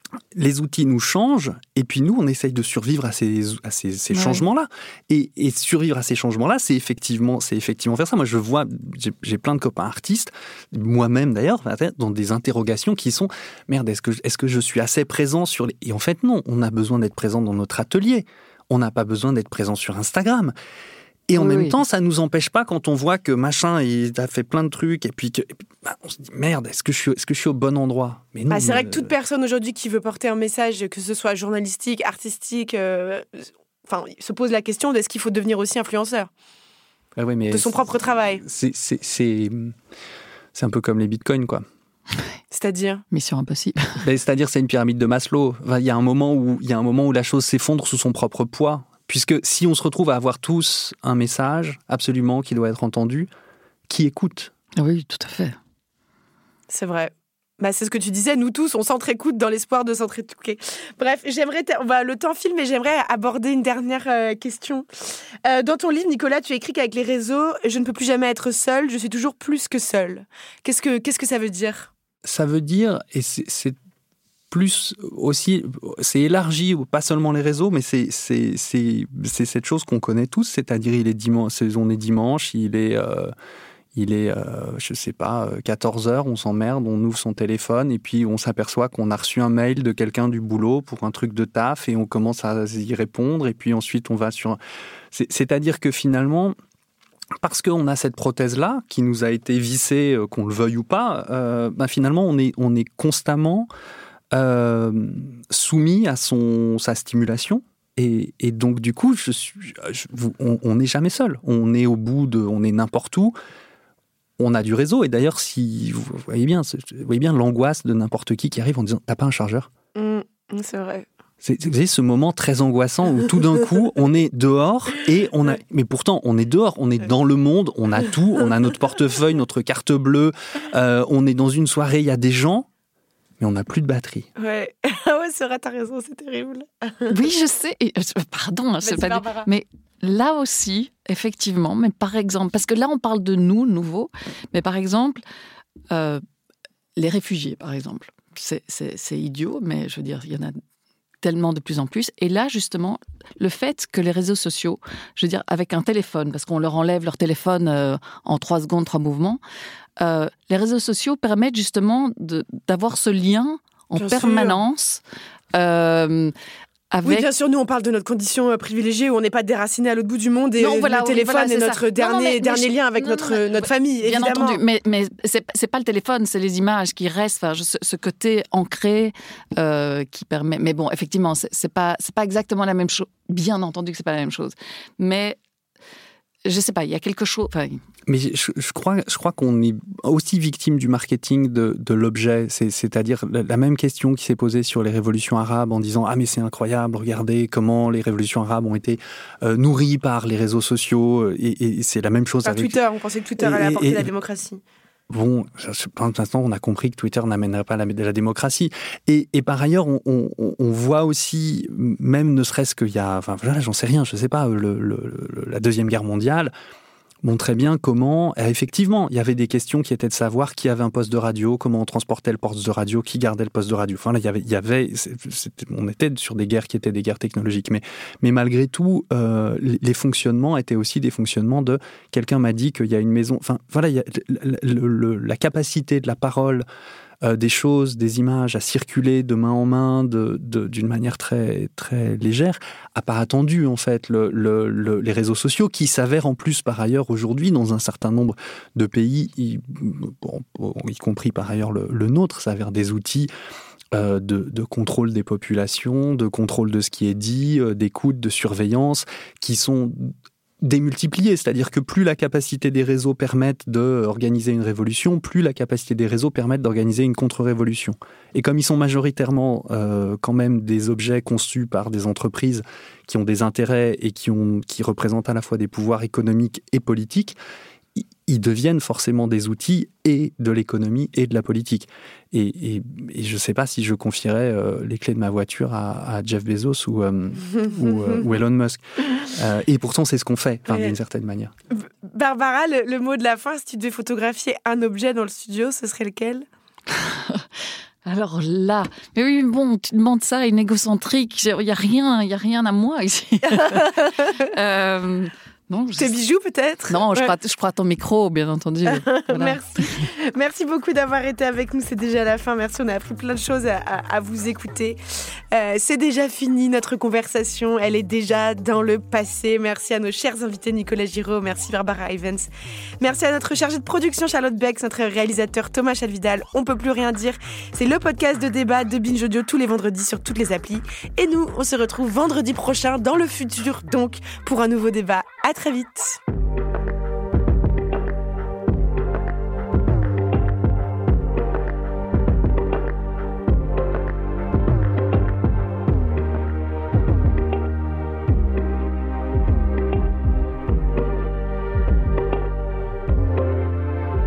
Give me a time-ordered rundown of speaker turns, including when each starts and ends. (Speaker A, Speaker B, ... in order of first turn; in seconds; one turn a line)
Speaker A: 0.3-20.5
Speaker B: 4.1-4.4
Speaker A: 21.3-29.1
Speaker B: 21.4-21.8
Speaker C: 28.5-36.3
Speaker A: 37.1-37.9
Speaker C: 37.5-38.4
Speaker A: 38.4-39.7
Speaker A: 40.5-41.6
Speaker C: 42.5-43.0
Speaker B: 43.1-44.0
Speaker A: 44.0-53.3
Speaker A: 53.9-54.5
Speaker B: 54.8-55.6
Speaker C: 56.7-64.8
Speaker C: 65.4-71.9
Speaker A: 72.2-73.8
Speaker A: 74.5-83.3
Speaker A: 83.9-94.6
Speaker A: 95.1-96.5
Speaker A: 97.4-103.7
Speaker A: 104.3-113.3
Speaker A: 114.4-119.7
Speaker C: 119.9-121.1
Speaker A: 121.4-132.7
Speaker A: 133.4-134.3
Speaker C: 134.4-137.2
Speaker B: 137.1-145.2
Speaker C: 138.8-139.5
Speaker B: 145.9-146.2
Speaker B: 147.0-150.6
Speaker B: 151.2-159.4
Speaker B: 160.0-165.0
Speaker C: 164.0-164.6
Speaker B: 165.5-166.3
Speaker B: 166.9-167.3
Speaker C: 167.0-174.6
Speaker B: 170.6-185.4
Speaker B: 186.4-187.8
Speaker A: 188.1-202.8
Speaker C: 202.4-204.6
Speaker A: 203.4-204.1
Speaker A: 205.1-216.5
Speaker A: 217.2-236.6
Speaker A: 237.2-253.3
Speaker A: 253.9-277.4
Speaker A: 277.9-291.5
Speaker C: 287.5-288.1
Speaker C: 290.7-290.9
Speaker C: 291.7-296.4
Speaker B: 296.9-297.5
Speaker B: 298.1-306.2
Speaker C: 303.4-304.5
Speaker C: 306.0-307.3
Speaker B: 306.9-310.1
Speaker C: 308.9-315.0
Speaker C: 315.5-322.5
Speaker C: 323.0-336.2